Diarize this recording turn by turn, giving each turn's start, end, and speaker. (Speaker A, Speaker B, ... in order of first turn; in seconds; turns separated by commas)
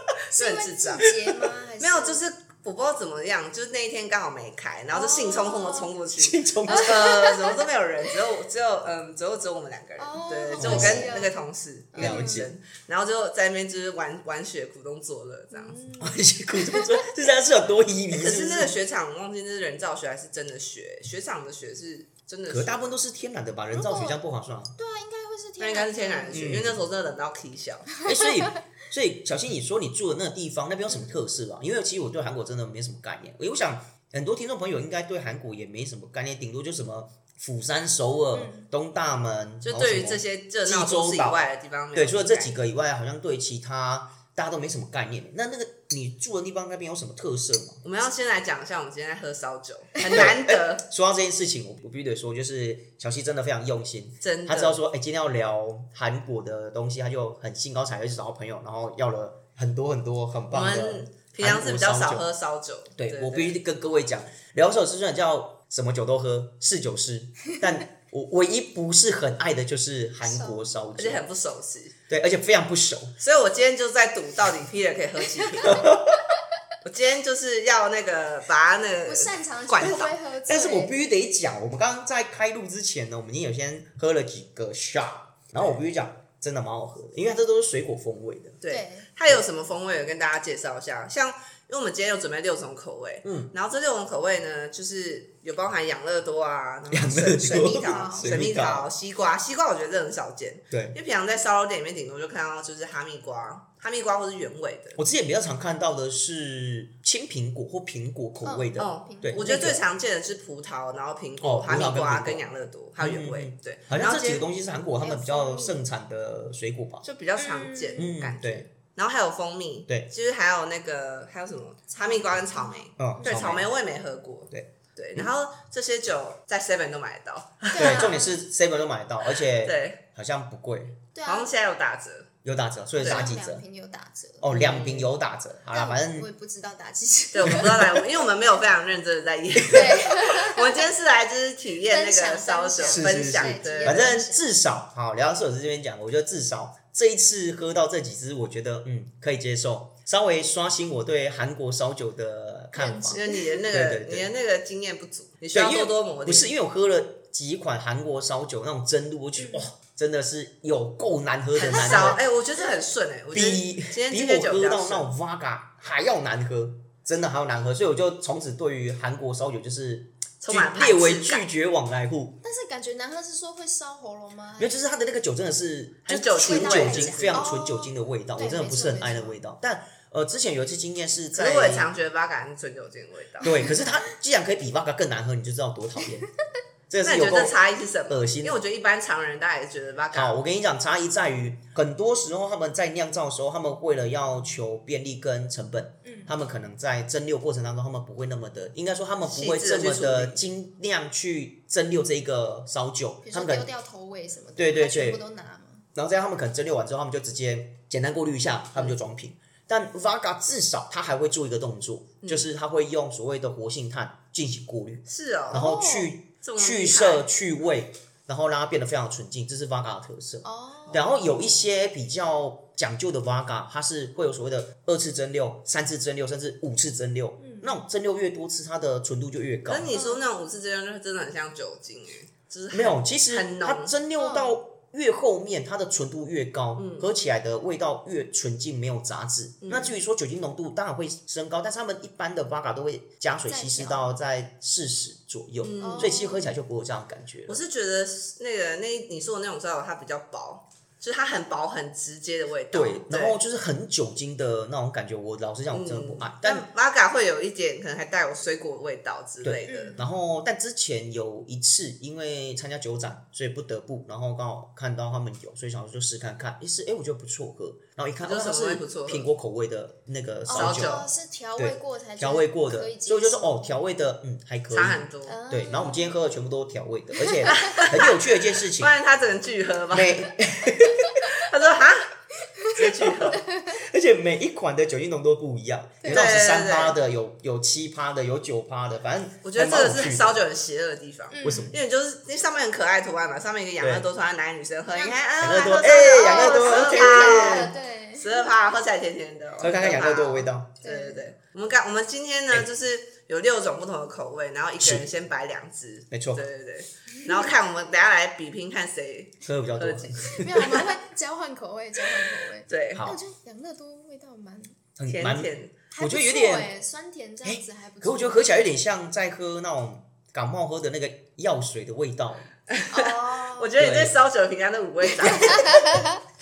Speaker A: 0.3-2.2, Speaker B: 0.3-1.1, Speaker B: 1.8-15.8, Speaker A: 4.9-5.9, Speaker C: 6.2-7.2, Speaker A: 6.7-7.7, Speaker A: 10.0-11.4, Speaker C: 10.6-11.3, Speaker A: 11.9-12.5, Speaker C: 12.0-12.5, Speaker A: 15.5-17.1, Speaker C: 16.0-18.8, Speaker B: 18.1-23.0, Speaker C: 22.5-24.8, Speaker A: 23.7-24.2, Speaker A: 24.8-26.5, Speaker B: 25.6-27.9, Speaker C: 26.3-26.8, Speaker C: 28.0-47.8, Speaker A: 28.1-28.6, Speaker A: 30.9-31.2, Speaker A: 38.3-38.7, Speaker B: 39.6-42.5, Speaker B: 47.8-50.8, Speaker C: 50.1-62.3, Speaker B: 54.2-54.8, Speaker B: 60.5-63.6, Speaker C: 63.0-71.2, Speaker A: 70.2-70.8, Speaker B: 71.0-71.9, Speaker C: 72.1-73.2, Speaker B: 73.2-75.9, Speaker C: 75.6-76.2, Speaker B: 76.8-80.1, Speaker A: 79.1-81.0, Speaker C: 79.8-88.6, Speaker B: 88.6-105.0, Speaker A: 88.7-89.1, Speaker C: 93.2-93.5, Speaker C: 96.9-98.9, Speaker A: 97.5-98.3, Speaker C: 100.7-101.0, Speaker C: 105.0-109.8, Speaker A: 108.4-109.7, Speaker B: 108.8-114.5, Speaker C: 111.4-112.5, Speaker C: 113.0-117.0, Speaker A: 115.0-115.8, Speaker B: 117.0-128.1, Speaker A: 117.4-118.1, Speaker C: 118.0-118.7, Speaker A: 122.0-123.5, Speaker C: 123.0-123.7, Speaker C: 124.5-125.3, Speaker C: 127.6-131.0, Speaker A: 127.7-128.4, Speaker B: 129.3-130.0, Speaker A: 131.2-131.5, Speaker B: 131.2-132.3, Speaker C: 132.4-133.7, Speaker B: 133.0-133.3, Speaker A: 133.0-134.5, Speaker C: 134.4-136.3, Speaker B: 134.5-135.1, Speaker A: 135.7-138.0, Speaker B: 137.3-144.1, Speaker C: 137.5-137.9, Speaker A: 139.7-140.8, Speaker A: 141.8-144.4, Speaker C: 142.9-154.3, Speaker A: 152.7-153.5, Speaker B: 153.1-156.5, Speaker C: 155.5-162.2, Speaker A: 159.4-159.7, Speaker B: 161.6-165.1, Speaker A: 161.7-162.8, Speaker C: 163.3-172.4, Speaker B: 170.4-171.5, Speaker A: 172.4-174.8, Speaker C: 174.6-181.9, Speaker B: 176.1-177.4, Speaker A: 176.4-179.4, Speaker B: 181.3-183.7, Speaker C: 183.4-186.3, Speaker A: 183.6-183.9, Speaker C: 186.9-187.6, Speaker B: 187.0-190.4, Speaker C: 188.1-188.6, Speaker C: 190.1-203.7, Speaker A: 196.1-196.3, Speaker B: 199.3-200.4, Speaker A: 203.2-205.8, Speaker C: 204.6-205.2, Speaker C: 205.9-230.0, Speaker B: 212.2-212.5, Speaker B: 215.1-215.7, Speaker A: 215.5-216.1, Speaker B: 216.4-217.3, Speaker A: 220.4-221.2, Speaker B: 220.9-221.6, Speaker A: 227.4-227.8, Speaker B: 229.7-233.9, Speaker A: 229.9-230.2, Speaker C: 232.7-247.6, Speaker A: 234.2-234.6, Speaker B: 236.8-237.1, Speaker B: 239.6-240.0, Speaker A: 243.5-244.2, Speaker B: 245.6-246.2, Speaker A: 245.8-246.5, Speaker B: 247.5-253.4, Speaker C: 252.7-256.7, Speaker B: 255.7-260.0, Speaker C: 259.4-278.9, Speaker A: 259.7-260.1, Speaker B: 268.2-269.3, Speaker A: 270.5-273.8, Speaker B: 270.5-271.1, Speaker B: 274.7-275.4, Speaker A: 275.3-276.2, Speaker A: 277.1-277.9, Speaker B: 277.5-278.1, Speaker B: 278.8-280.3, Speaker C: 279.9-281.1, Speaker B: 281.2-282.1, Speaker A: 282.6-283.8, Speaker B: 282.7-283.4, Speaker C: 283.0-290.4, Speaker A: 286.0-286.3, Speaker B: 286.1-287.0, Speaker B: 289.4-310.8, Speaker A: 291.3-291.8, Speaker C: 291.4-291.8, Speaker C: 293.8-294.1, Speaker A: 294.9-295.2, Speaker C: 295.4-297.8, Speaker A: 296.1-298.5, Speaker C: 299.6-300.7, Speaker A: 300.8-301.3, Speaker C: 304.8-305.1, Speaker C: 306.1-306.4, Speaker A: 307.2-307.5, Speaker C: 309.4-310.8, Speaker A: 310.3-314.8, Speaker B: 312.7-313.1, Speaker C: 312.9-313.2, Speaker C: 315.0-316.7, Speaker B: 315.1-315.8, Speaker A: 315.9-318.6, Speaker C: 317.4-322.5, Speaker B: 322.7-325.9, Speaker A: 322.9-323.7, Speaker C: 323.8-324.2, Speaker A: 325.5-326.1